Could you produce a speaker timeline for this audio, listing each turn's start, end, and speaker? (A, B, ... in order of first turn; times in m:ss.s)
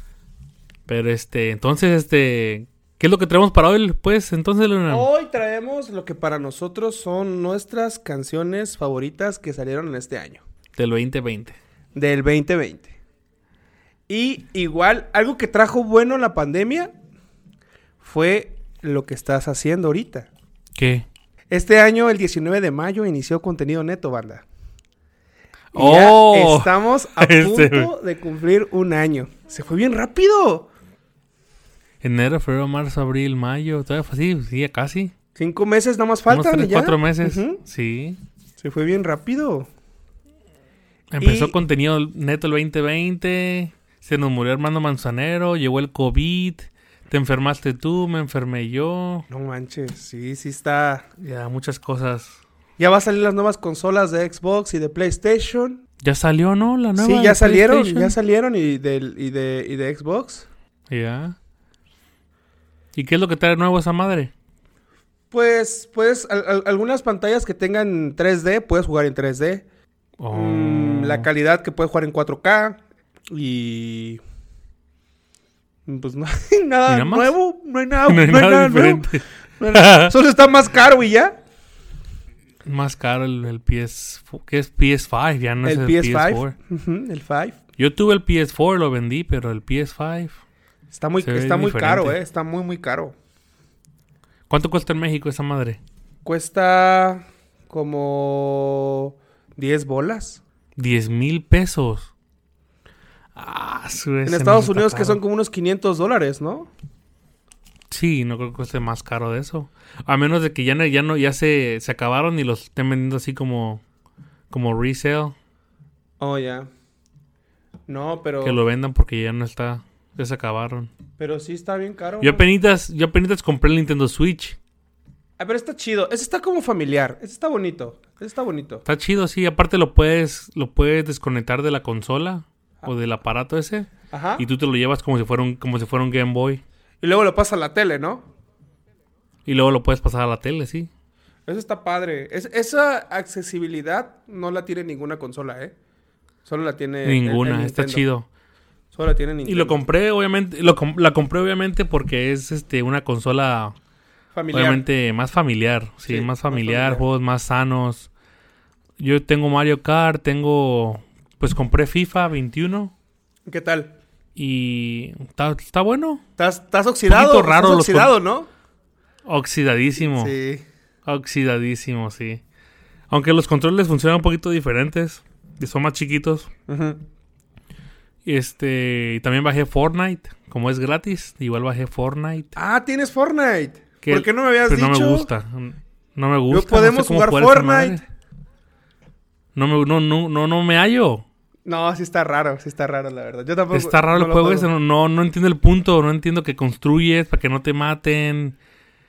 0:00.9-0:05.1 A
0:04.9-0:10.4 B
0:10.8-0:11.6 A
0:11.9-0:12.9 B
0:14.1-0:16.9 B
0:18.0-0:20.3 B
0:20.8-0:21.0 A
0:21.5-0:24.4 B
0:25.7-0:27.9 A
0:25.7-0:30.7 B
0:32.0-0:35.1 A
0:35.4-0:37.6 B
0:36.3-0:38.2 A
0:38.6-0:39.7 B
0:41.1-0:49.2 A
0:41.2-0:41.6 B
0:49.3-0:51.1 B
0:51.2-0:52.4 A
0:52.8-0:55.8 B
0:56.0-0:58.2 A
0:57.0-1:00.4 B
1:00.9-1:01.4 A
1:02.9-1:04.3 A
1:05.3-1:09.6 B
1:10.2-1:11.3 A
1:10.3-1:12.8 B
1:13.3-1:14.2 B
1:15.9-1:19.1 B
1:16.9-1:17.4 A
1:18.0-1:20.1 A
1:19.6-1:21.4 B
1:22.6-1:26.6 A
1:25.6-1:27.6 B
1:27.8-1:30.4 A
1:30.9-1:33.1 B
1:31.2-1:32.2 A
1:34.5-1:35.8 A
1:36.2-1:40.4 B
1:40.8-1:42.1 A
1:43.4-1:45.2 A
1:44.2-1:46.7 B
1:47.9-1:53.8 A
1:54.5-1:55.4 A
1:56.2-1:56.7 B
1:57.9-1:58.6 B
1:58.4-2:00.9 A
2:01.2-2:02.4 B
2:02.2-2:04.6 A
2:05.4-2:08.8 B
2:08.8-2:16.6 A
2:14.1-2:14.4 B
2:17.0-2:18.2 B
2:19.5-2:20.9 A
2:21.5-2:25.7 B
2:26.5-2:28.1 B
2:27.0-2:28.3 A
2:28.9-2:29.8 B
2:29.4-2:33.8 A
2:34.3-2:34.9 B
2:34.5-2:38.1 A
2:36.1-2:37.0 B
2:39.0-2:42.9 A
2:43.5-2:43.9 B
2:44.4-2:46.2 A
2:46.4-2:48.5 B
2:47.1-2:48.1 A
2:49.2-2:50.4 A
2:50.1-2:50.6 B
2:51.1-2:52.4 A
2:53.1-2:56.5 A
2:56.7-2:57.0 B
2:58.2-3:02.5 A
3:02.6-3:05.3 B
3:04.0-3:08.0 A
3:06.5-3:08.0 B
3:09.5-3:11.2 A
3:11.6-3:14.7 B
3:13.7-3:18.6 A